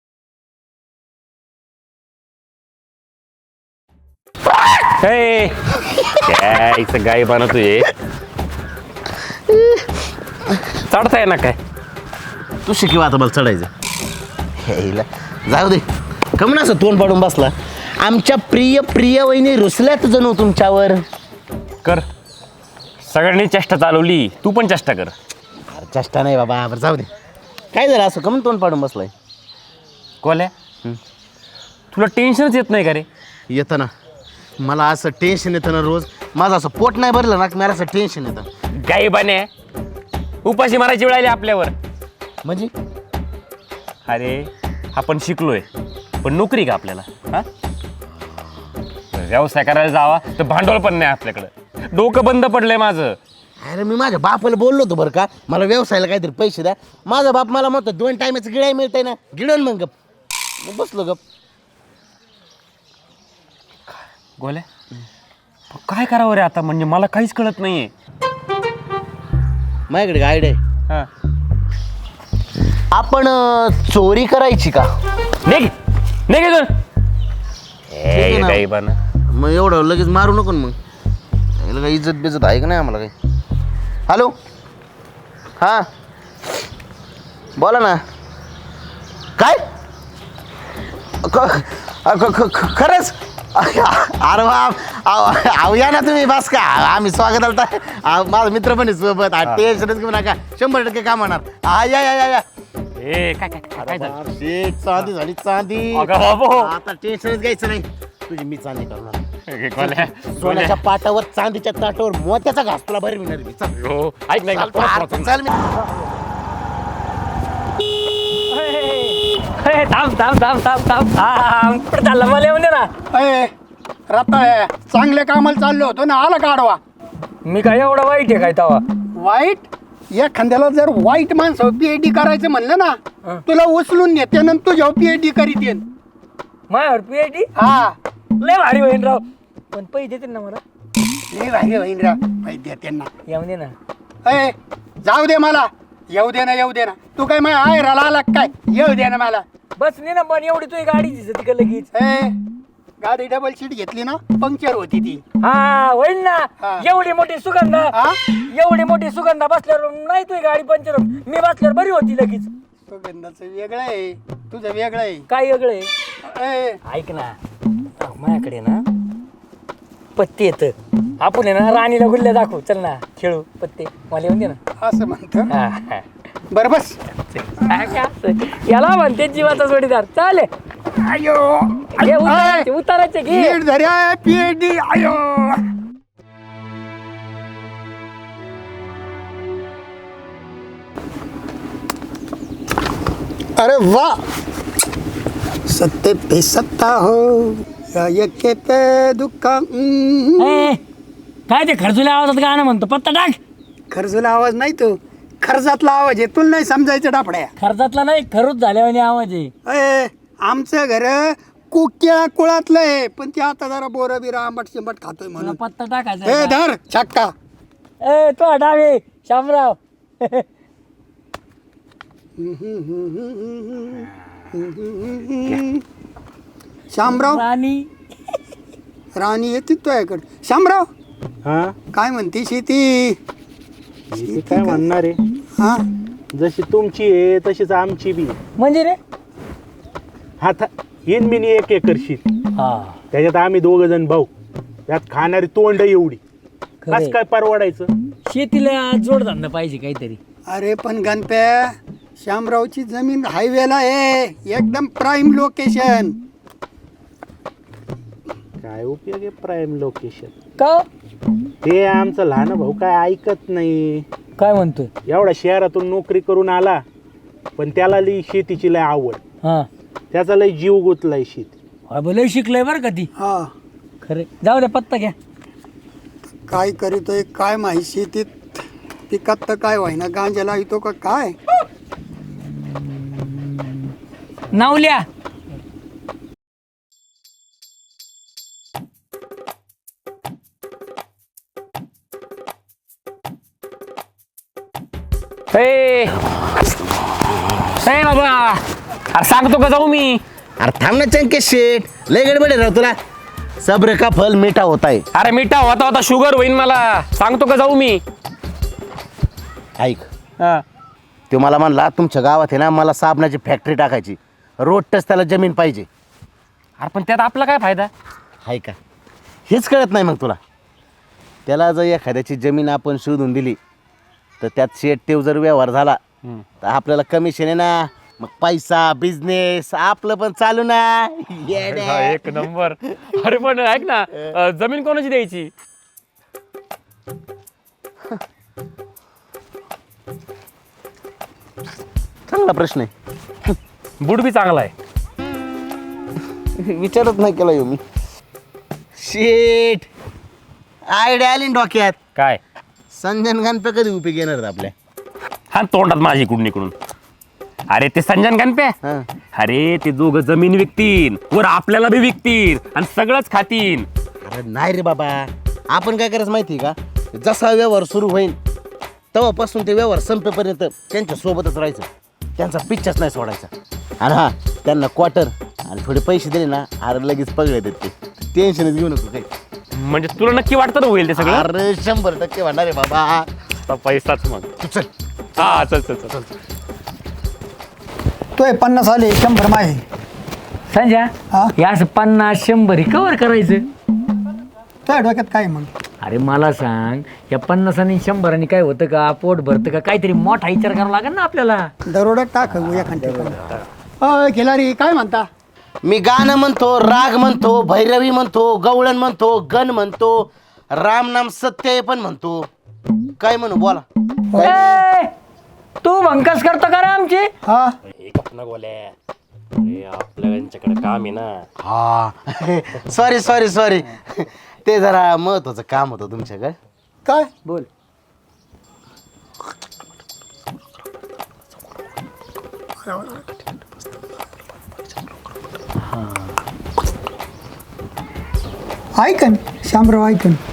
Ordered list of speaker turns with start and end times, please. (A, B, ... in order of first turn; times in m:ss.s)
0:05.0-0:07.9 A
0:10.9-0:11.6 A
0:12.7-0:13.7 B
0:14.6-0:15.8 B
0:16.4-0:21.0 B
0:23.0-0:25.1 A
0:25.7-0:27.1 B
0:27.7-0:29.1 B
0:30.2-0:30.5 A
0:31.9-0:33.1 A
0:33.5-0:33.9 B
0:34.6-0:38.5 B
0:38.8-0:39.5 A
0:40.4-0:41.7 A
0:42.4-0:42.7 B
0:44.1-0:45.7 A
0:46.2-0:47.5 A
0:49.1-0:53.2 A
0:53.6-0:59.9 B
1:00.6-1:01.2 B
1:04.4-1:04.7 A
1:05.7-1:07.9 A
1:09.9-1:10.6 B
1:12.9-1:14.9 B
1:15.4-1:15.7 A
1:16.3-1:16.7 A
1:18.0-1:19.0 A
1:18.0-1:18.6 B
1:19.3-1:20.8 B
1:21.6-1:23.1 B
1:24.1-1:24.3 B
1:25.6-1:25.9 B
1:27.6-1:28.0 B
1:31.2-1:42.4 B
1:43.0-1:44.2 A
1:43.8-1:49.2 B
1:45.9-1:46.7 A
1:49.5-1:50.8 A
1:49.8-1:53.9 B
1:53.7-1:55.3 A
1:54.5-1:55.6 B
1:58.5-2:02.9 C
2:03.1-2:03.5 D
2:04.1-2:06.8 D
2:07.4-2:08.8 C
2:09.1-2:15.8 D
2:16.7-2:17.5 C
2:17.6-2:18.0 D
2:18.4-2:20.6 C
2:21.3-2:23.1 D
2:23.3-2:23.7 C
2:24.2-2:29.4 D
2:29.8-2:31.9 C
2:31.9-2:32.4 D
2:33.0-2:35.2 D
2:35.4-2:37.9 C
2:38.5-2:42.5 C
2:42.9-2:45.2 D
2:45.3-2:45.9 C
2:46.2-2:46.8 D
2:46.9-2:47.4 C
2:48.0-2:48.8 C
2:50.2-2:54.6 C
2:54.8-2:55.5 D
2:55.5-2:56.0 C
2:56.5-2:57.0 D
2:57.4-3:00.5 C
2:57.6-2:57.9 D
3:00.9-3:02.7 D
3:02.0-3:03.6 C
3:03.3-3:05.7 D
3:13.6-3:14.2 D
3:15.7-3:20.7 D
3:20.4-3:20.8 C
3:21.5-3:23.4 C
3:23.9-3:27.5 D
3:27.6-3:29.5 C
3:29.7-3:35.6 D
3:35.4-3:36.6 C
3:36.2-3:37.3 D
3:38.0-3:40.5 C
3:42.4-3:45.8 D
3:46.9-3:47.4 D
3:47.1-3:47.9 C
3:49.2-3:50.9 D
3:51.4-3:51.8 E
3:51.9-3:53.2 D
3:54.1-3:55.2 E
3:54.2-3:54.8 D
3:55.6-3:55.8 D
3:56.3-3:58.4 E
3:58.6-3:59.0 C
4:00.4-4:02.2 E
4:02.6-4:03.0 C
4:03.1-4:04.3 E
4:04.9-4:06.2 E
4:06.8-4:07.2 C
4:06.9-4:07.9 E
4:08.3-4:10.2 C
4:10.5-4:16.2 D
4:18.6-4:20.3 E
4:20.6-4:20.9 C
4:21.6-4:24.0 E
4:24.4-4:24.9 C
4:25.1-4:26.8 E
4:27.6-4:29.2 E
4:29.4-4:29.7 C
4:30.1-4:31.5 E
4:31.9-4:33.1 C
4:33.2-4:33.5 D
4:34.0-4:35.2 C
4:36.5-4:41.4 D
4:42.3-4:43.9 C
4:44.5-4:45.1 C
4:55.5-4:56.2 A
4:57.8-4:58.6 A
4:59.1-5:00.2 A
5:00.6-5:03.0 B
5:03.6-5:05.0 B
5:05.1-5:08.0 A
5:09.8-5:10.1 B
5:11.3-5:15.9 B
5:16.8-5:17.9 A
5:18.4-5:18.8 B
5:19.5-5:20.4 B
5:21.5-5:23.6 B
5:24.4-5:26.0 B
5:26.6-5:32.5 B
5:31.5-5:35.5 A
5:42.3-5:42.9 B
5:44.0-5:44.7 A
5:46.6-5:47.8 B
5:49.0-5:49.9 B
5:50.9-5:52.0 B
5:52.9-5:54.7 B
5:55.5-5:56.7 A
5:57.7-5:58.8 A
5:59.3-6:03.9 A
6:04.2-6:08.4 B
6:09.1-6:13.5 B
6:14.0-6:19.3 B
6:19.8-6:21.5 A
6:21.1-6:23.3 B
6:23.7-6:24.5 A
6:24.6-6:25.6 B
6:25.4-6:26.3 A
6:28.4-6:29.8 D
6:30.7-6:33.6 C
6:34.9-6:35.7 D
6:36.0-6:41.7 C
6:41.9-6:43.4 D
6:44.0-6:45.3 D
6:45.8-6:52.5 B
6:53.2-6:53.8 B
6:54.3-6:54.6 D
6:54.4-6:55.1 C
6:55.8-6:57.3 C
6:57.4-6:57.8 D
6:58.0-6:58.9 A
6:59.6-7:01.5 A
7:01.6-7:06.6 B
7:07.0-7:07.3 D
7:12.8-7:13.2 D
7:15.9-7:16.2 C
7:19.0-7:20.4 D